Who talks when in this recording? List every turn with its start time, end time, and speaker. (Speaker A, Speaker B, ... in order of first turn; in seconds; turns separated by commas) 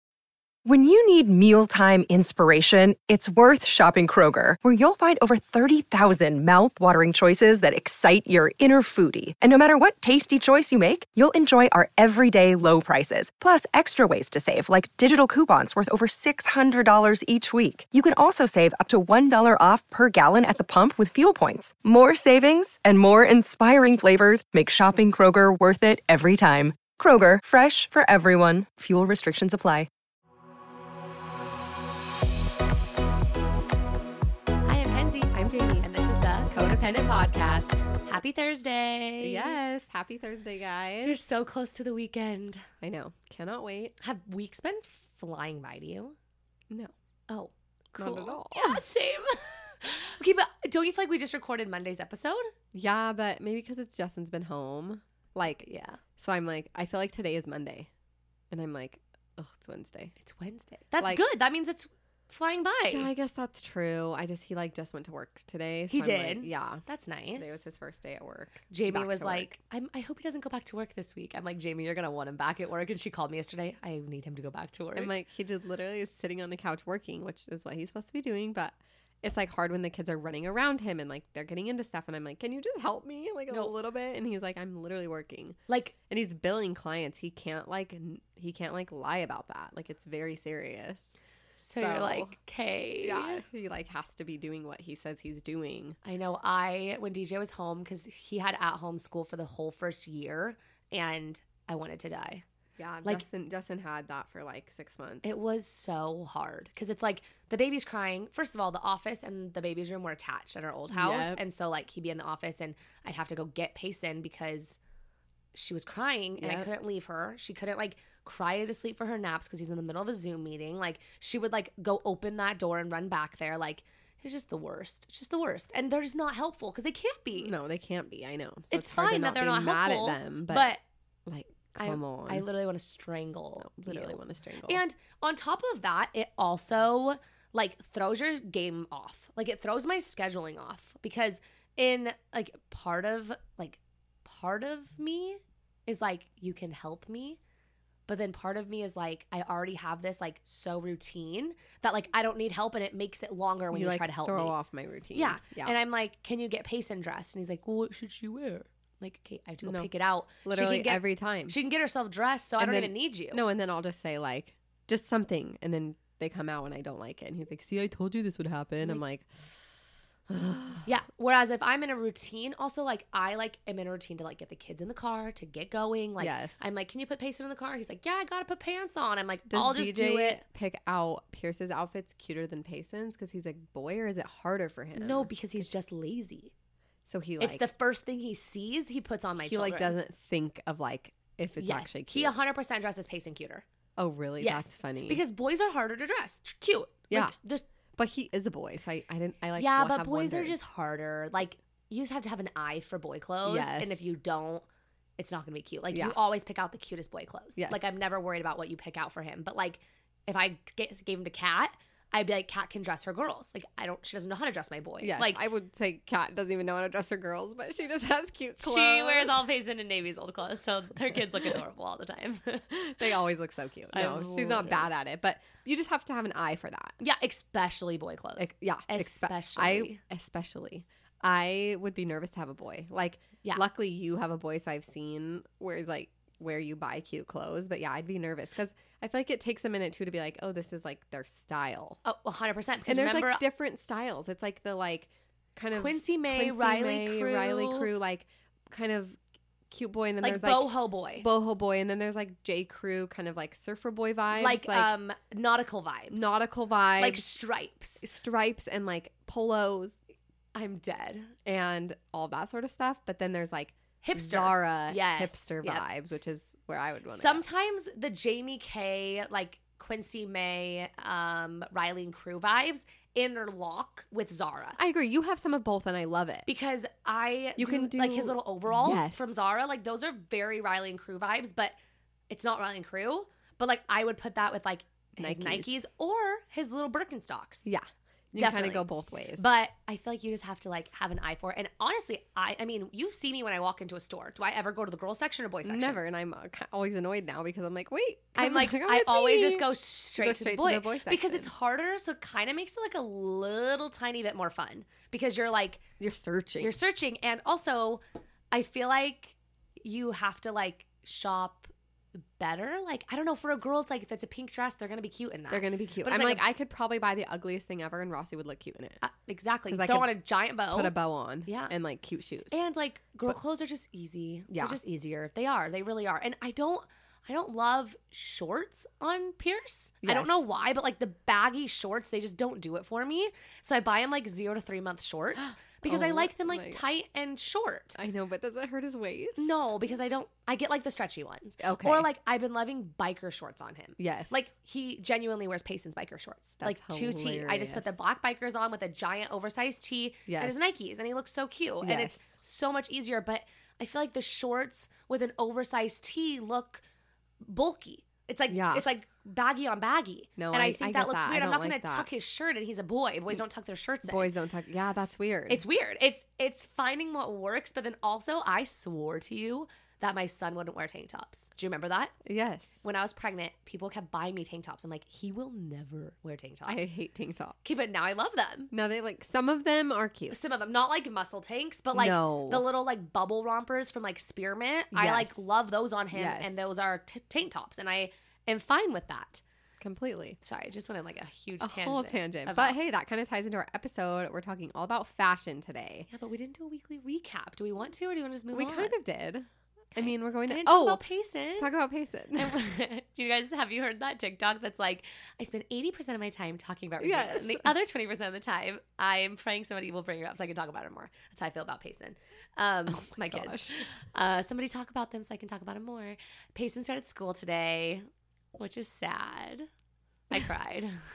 Speaker A: 0.6-29.9, Speaker B: 34.6-39.6, Speaker C: 35.3-35.9, Speaker C: 36.5-37.4, Speaker C: 39.2-41.2, Speaker B: 41.0-42.6, Speaker C: 42.8-44.0, Speaker B: 44.0-46.1, Speaker B: 47.3-52.5, Speaker C: 48.0-48.8, Speaker C: 52.7-57.9, Speaker B: 55.6-56.0, Speaker C: 58.5-60.1, Speaker B: 60.2-63.1, Speaker C: 62.9-66.8, Speaker B: 65.9-67.6, Speaker C: 67.3-69.5, Speaker B: 68.7-75.1, Speaker C: 74.9-85.6, Speaker B: 85.7-85.9, Speaker C: 86.1-91.2, Speaker B: 91.6-93.4, Speaker C: 91.8-92.3, Speaker C: 93.0-96.0, Speaker B: 96.0-102.4, Speaker C: 102.8-105.3, Speaker B: 105.2-114.8, Speaker C: 110.9-111.4, Speaker B: 115.5-127.5, Speaker C: 116.4-116.7, Speaker C: 127.3-130.7, Speaker B: 128.7-130.8, Speaker C: 131.2-132.4, Speaker B: 131.8-147.4, Speaker C: 133.6-134.8, Speaker B: 148.1-154.5, Speaker C: 153.7-155.7, Speaker B: 155.1-163.4, Speaker C: 159.6-159.9, Speaker C: 160.4-161.5, Speaker C: 162.6-169.3, Speaker C: 170.3-170.9, Speaker B: 170.8-180.4, Speaker C: 176.2-176.7, Speaker C: 179.5-185.6, Speaker B: 184.9-186.5, Speaker C: 187.1-187.6, Speaker B: 187.4-189.9, Speaker C: 189.4-192.3, Speaker B: 191.6-193.6, Speaker C: 194.0-195.2, Speaker B: 194.4-197.7, Speaker C: 197.1-197.3, Speaker C: 197.9-200.5, Speaker B: 199.6-204.7, Speaker C: 203.4-204.0, Speaker B: 205.2-215.4, Speaker C: 205.9-206.2, Speaker C: 207.6-207.9, Speaker C: 215.0-219.4, Speaker B: 218.6-222.7, Speaker C: 222.7-227.0, Speaker B: 223.9-224.9, Speaker B: 227.0-230.0, Speaker C: 228.4-242.0, Speaker B: 242.0-243.4, Speaker C: 242.9-254.9, Speaker B: 245.8-247.9, Speaker B: 250.2-251.3, Speaker B: 254.3-256.3, Speaker C: 256.1-257.3, Speaker B: 257.0-258.1, Speaker C: 258.0-260.0, Speaker B: 260.6-261.3, Speaker C: 261.4-267.4, Speaker B: 264.0-265.8, Speaker B: 267.1-274.8, Speaker C: 274.8-276.5, Speaker B: 276.4-281.8, Speaker C: 277.6-279.4, Speaker B: 282.3-287.7, Speaker C: 285.2-285.8, Speaker C: 287.6-289.4, Speaker B: 288.4-296.0, Speaker C: 295.6-301.5, Speaker B: 298.4-305.8, Speaker C: 306.0-306.8, Speaker B: 306.6-311.7, Speaker B: 312.4-316.4, Speaker C: 315.5-319.0, Speaker B: 319.0-320.9, Speaker C: 319.7-320.1, Speaker C: 320.7-322.6, Speaker B: 321.4-321.7, Speaker B: 322.5-338.0, Speaker C: 324.5-324.8, Speaker C: 330.0-330.5, Speaker C: 335.4-336.8, Speaker C: 337.9-339.6, Speaker B: 339.4-356.8, Speaker C: 341.6-342.1, Speaker C: 344.0-344.5, Speaker C: 346.6-347.9, Speaker C: 350.3-350.6, Speaker C: 351.8-352.3, Speaker B: 357.4-364.3, Speaker C: 358.5-358.9, Speaker C: 360.4-362.1, Speaker C: 364.1-365.6, Speaker B: 365.5-372.1, Speaker C: 372.2-372.8, Speaker B: 372.8-376.9, Speaker C: 376.6-377.6, Speaker B: 377.6-378.7, Speaker C: 378.7-380.4, Speaker B: 380.3-389.4, Speaker C: 381.9-382.6, Speaker C: 384.9-385.4, Speaker C: 386.1-386.7, Speaker C: 389.8-390.4, Speaker B: 390.4-392.8, Speaker C: 391.6-396.1, Speaker B: 396.1-398.9, Speaker C: 398.5-401.0, Speaker B: 400.0-401.7, Speaker C: 401.6-402.6, Speaker B: 402.3-419.7, Speaker C: 407.0-407.7, Speaker C: 412.9-413.9, Speaker B: 420.3-421.0